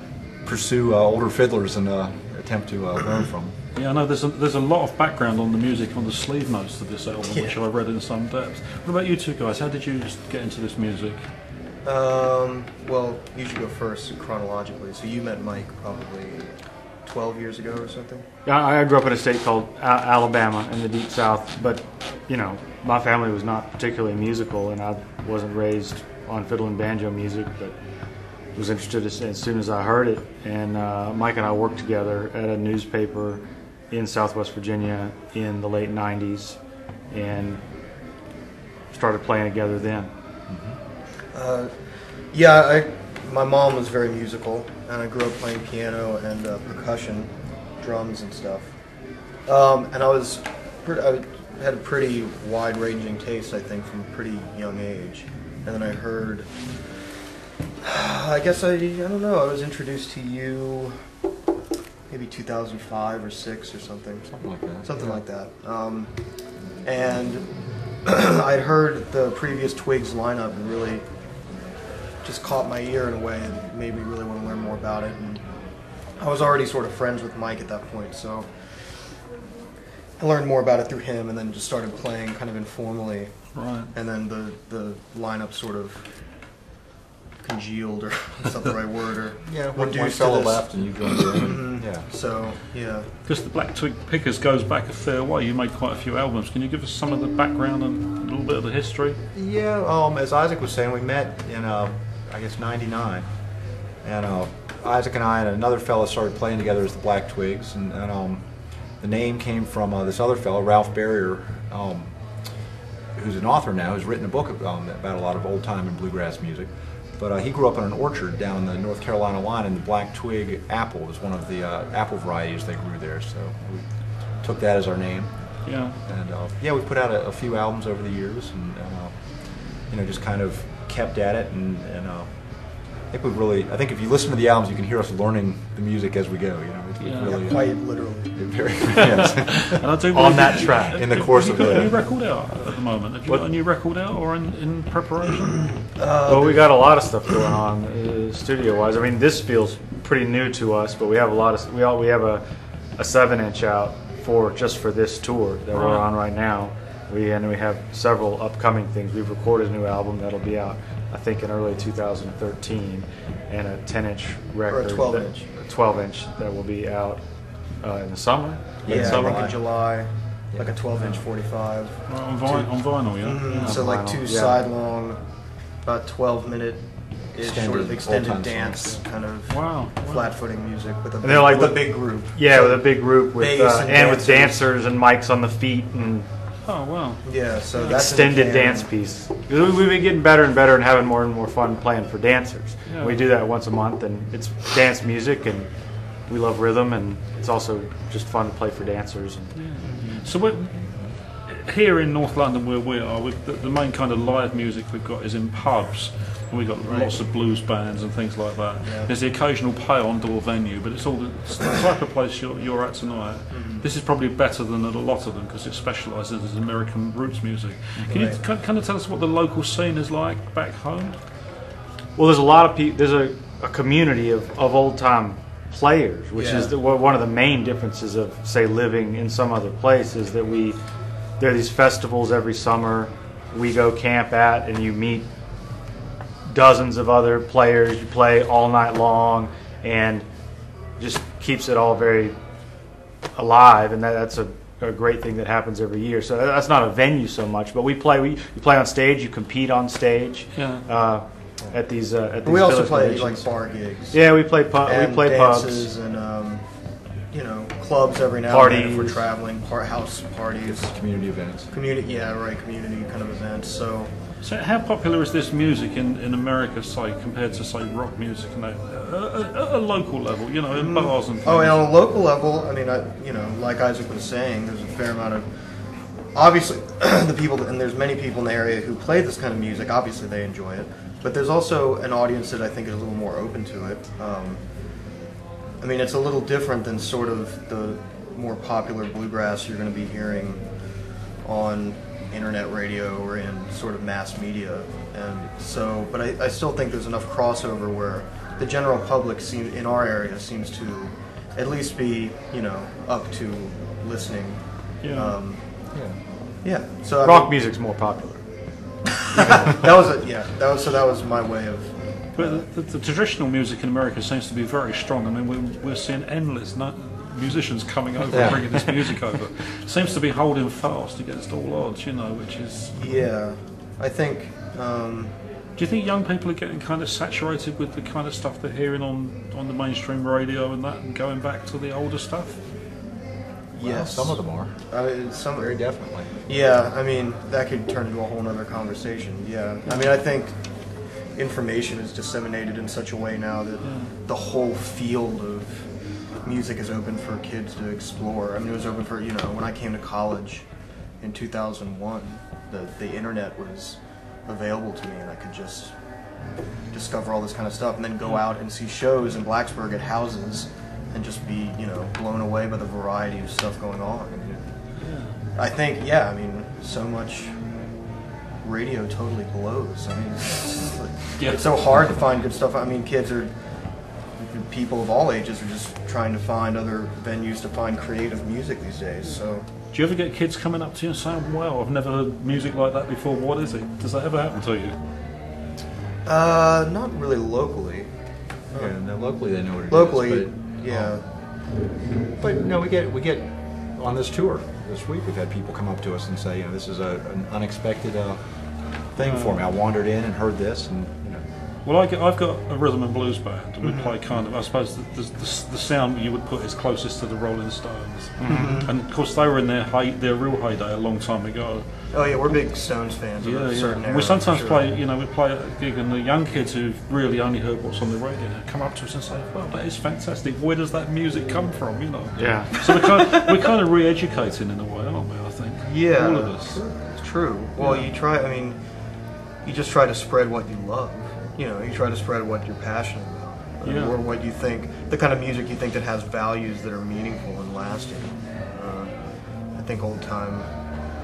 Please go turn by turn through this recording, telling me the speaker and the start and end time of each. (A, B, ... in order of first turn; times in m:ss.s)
0:00.2-0:03.5 A
0:03.7-0:11.2 B
0:07.3-0:07.5 C
0:11.8-0:16.5 C
0:17.0-0:18.2 C
0:18.4-0:27.8 D
0:28.5-0:36.6 D
0:37.1-0:37.6 D
0:38.9-0:40.1 D
0:40.5-0:40.8 A
0:41.3-0:48.7 C
0:49.4-0:56.8 C
0:57.8-1:01.0 C
1:02.1-1:06.1 C
1:04.3-1:05.1 A
1:06.8-1:11.0 C
1:12.2-1:15.4 C
1:16.2-1:18.5 C
1:20.2-1:26.1 C
1:23.5-1:23.9 B
1:27.4-1:33.1 C
1:29.4-1:32.1 A
1:33.2-1:39.2 B
1:39.3-1:43.3 A
1:44.0-1:52.1 A
1:53.1-2:19.9 A
2:05.6-2:06.0 B
2:17.0-2:17.4 B
2:17.2-2:18.6 C
2:19.8-2:25.7 B
2:20.1-2:21.4 D
2:20.9-2:22.0 A
2:26.0-2:26.8 C
2:26.3-2:32.4 D
2:33.0-2:47.2 D
2:35.7-2:36.0 B
2:44.7-2:45.4 C
2:47.8-2:49.4 D
2:48.8-2:49.6 A
2:48.8-2:55.2 C
2:52.1-2:53.8 B
2:53.5-2:54.6 D
2:55.8-3:04.6 C
2:57.4-2:59.0 A
2:59.5-3:00.2 B
3:01.2-3:06.2 D
3:06.6-3:08.0 B
3:07.2-3:08.9 C
3:07.9-3:15.7 D
3:12.9-3:13.2 B
3:16.2-3:19.6 D
3:19.5-3:41.2 B
3:19.8-3:20.2 C
3:26.8-3:27.1 C
3:28.8-3:29.1 C
3:33.5-3:33.8 C
3:38.0-3:38.3 A
3:38.1-3:38.4 C
3:42.2-3:50.8 D
3:46.3-3:46.7 C
3:51.4-3:55.2 D
3:56.5-4:00.2 D
4:01.0-4:02.3 D
4:03.3-4:15.9 D
4:10.5-4:10.8 B
4:12.4-4:16.6 C
4:17.3-4:24.1 C
4:18.5-4:19.2 D
4:20.6-4:21.7 A
4:24.4-4:31.9 B
4:30.7-4:35.5 C
4:36.3-4:44.6 C
4:45.8-4:50.6 C
4:51.4-5:07.5 C
5:05.0-5:05.3 B
5:05.9-5:06.2 A
5:07.2-5:08.4 D
5:09.4-5:12.7 C
5:12.4-5:23.2 B
5:18.3-5:18.9 A
5:22.9-5:25.3 C
5:25.8-5:32.6 B
5:33.7-5:45.9 C
5:33.8-5:36.3 A
5:39.8-5:40.2 B
5:43.8-5:44.1 B
5:46.4-5:50.6 C
5:51.2-5:55.9 C
5:56.9-6:07.7 C
6:05.0-6:05.4 B
6:08.6-6:13.5 C
6:11.4-6:11.7 B
6:14.4-6:19.6 C
6:19.9-6:25.0 B
6:26.2-6:28.1 C
6:28.7-6:31.3 C
6:28.7-6:41.4 A
6:39.2-6:39.6 B
6:41.8-6:51.8 B
6:43.8-6:44.1 C
6:48.4-6:48.8 D
6:48.5-6:48.9 C
6:52.1-6:54.9 C
6:53.4-7:07.0 B
7:02.4-7:02.7 D
7:05.8-7:08.8 C
7:07.8-7:08.1 B
7:09.6-7:19.2 C
7:13.8-7:14.2 B
7:19.7-7:20.7 C